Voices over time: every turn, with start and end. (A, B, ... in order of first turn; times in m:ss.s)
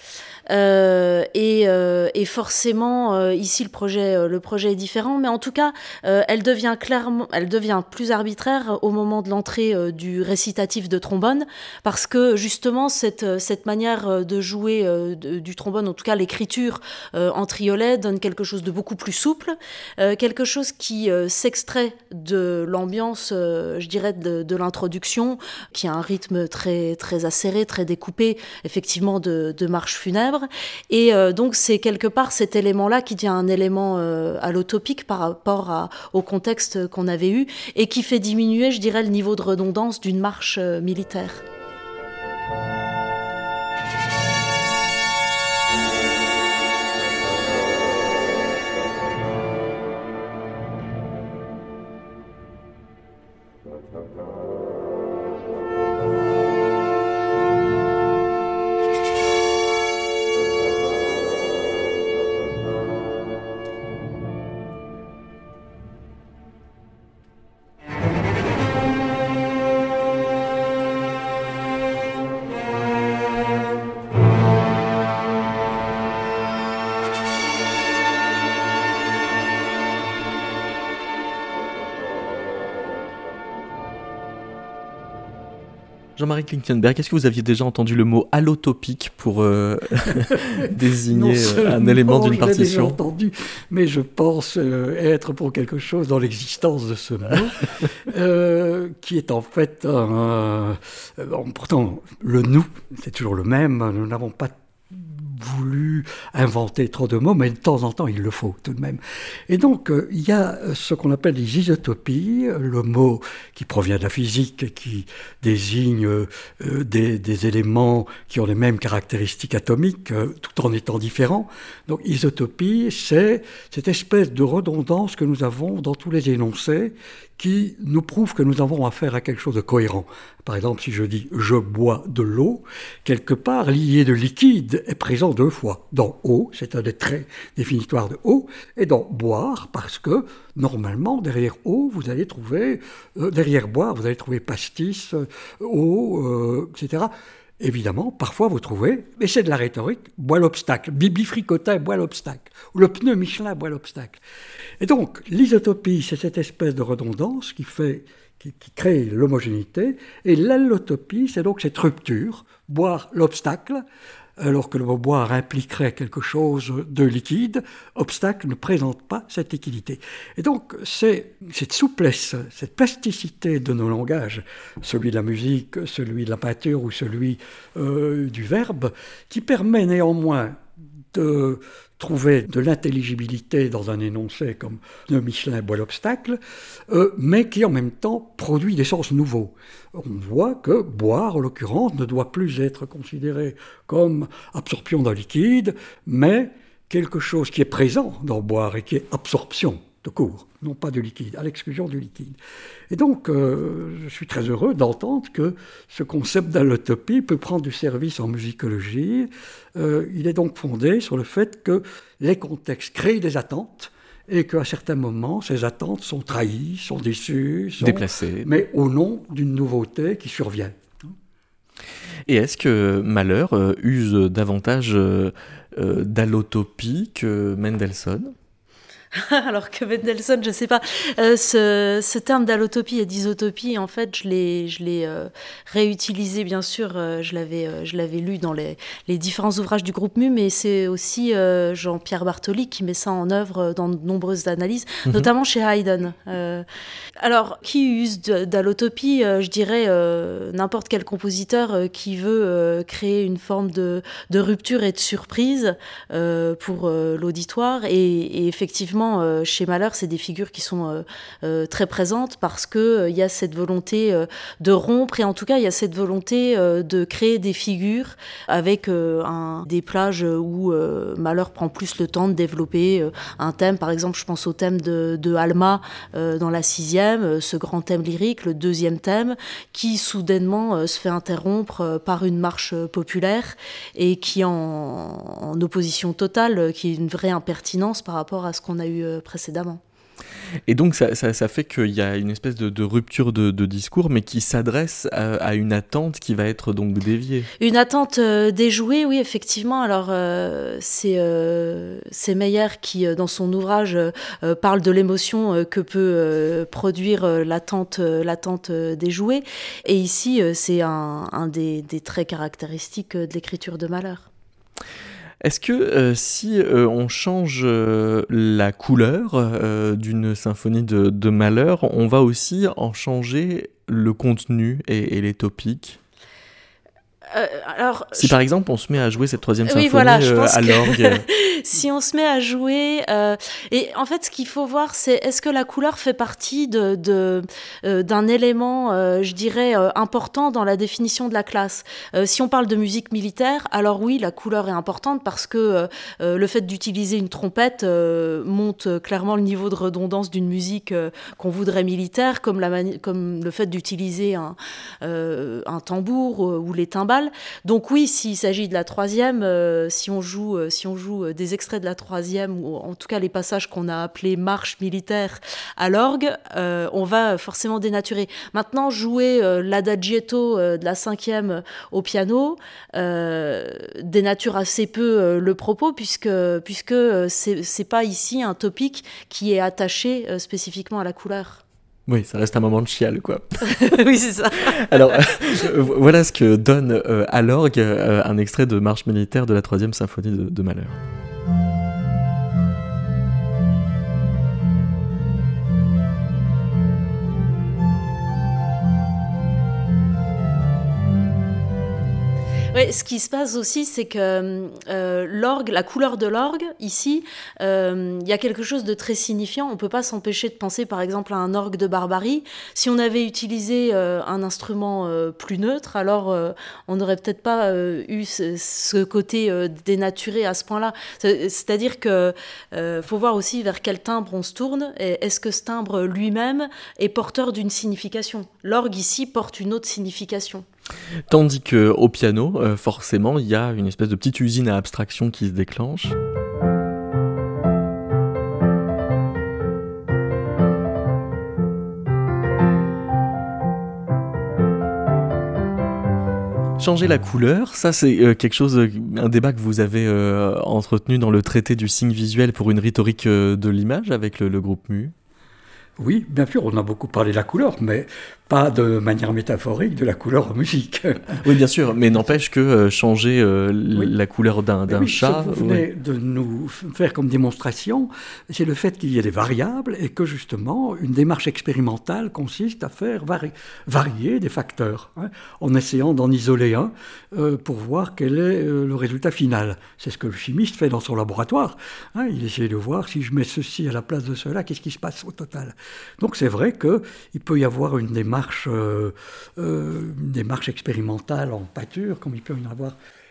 0:00.5-0:41.4 A
1:26.2-1:33.0 B
1:30.6-2:34.2 C
2:34.8-2:43.8 C
2:44.4-3:00.6 C
3:01.1-3:22.4 C
3:22.9-3:40.8 C
3:37.8-3:38.5 B
3:42.3-3:48.3 B
3:49.1-4:06.6 A
4:07.2-4:49.8 A
4:50.7-4:57.5 B
4:57.6-5:14.3 A
5:15.4-5:26.0 B
5:27.3-5:28.4 A
5:28.2-5:31.2 B
5:29.7-6:21.6 A
6:22.1-6:23.9 B
6:23.7-6:25.3 A
6:24.8-6:31.0 B
6:42.7-7:10.6 A
7:11.3-7:16.2 B
7:26.8-7:35.1 B
7:36.0-7:41.4 C
7:41.4-7:45.8 B
7:44.9-8:13.0 C